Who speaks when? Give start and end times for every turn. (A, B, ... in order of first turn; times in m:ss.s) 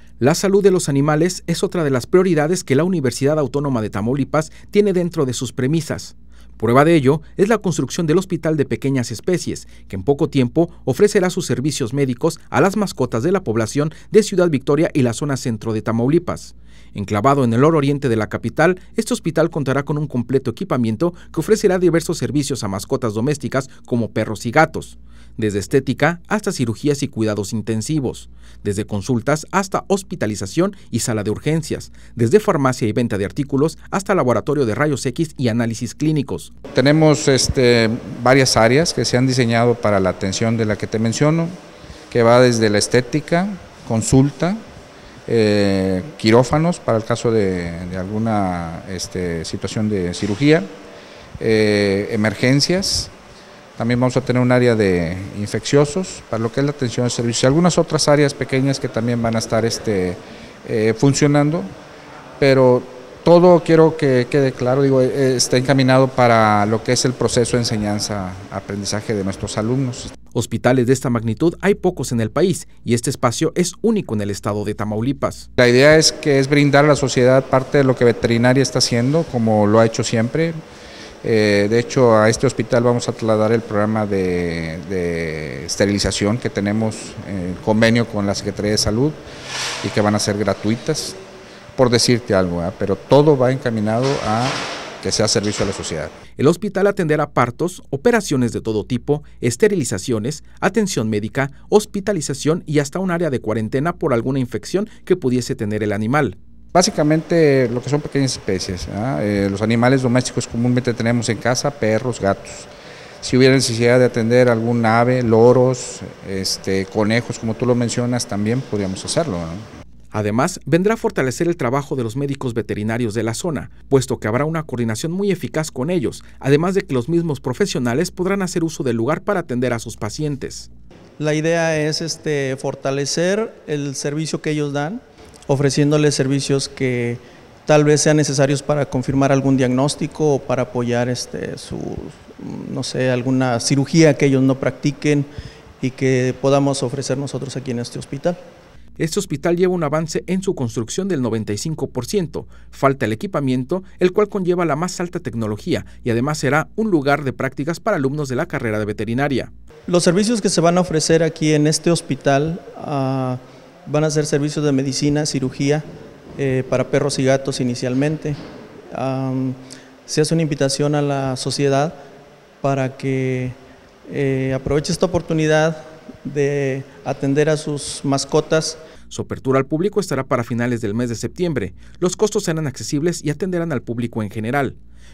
0:00.2-0:36.5 A
0:36.7-0:41.6 B
0:42.1-0:44.6 B
0:45.2-0:50.7 B
0:51.4-0:53.1 B
0:53.8-1:01.7 B
1:02.4-1:10.1 B
1:10.3-1:15.5 A
1:15.6-1:20.6 B
1:21.2-1:29.2 B
1:29.8-1:31.2 B
1:31.8-1:36.1 B
1:36.4-1:46.4 A
1:46.7-1:52.7 B
1:53.2-1:59.7 B
2:00.1-2:10.7 A
2:11.2-2:25.3 C
2:25.8-2:28.4 C
2:29.0-2:39.5 A
2:39.9-2:48.4 C
2:48.9-2:52.0 C
2:52.6-2:58.8 C
2:59.1-3:04.8 A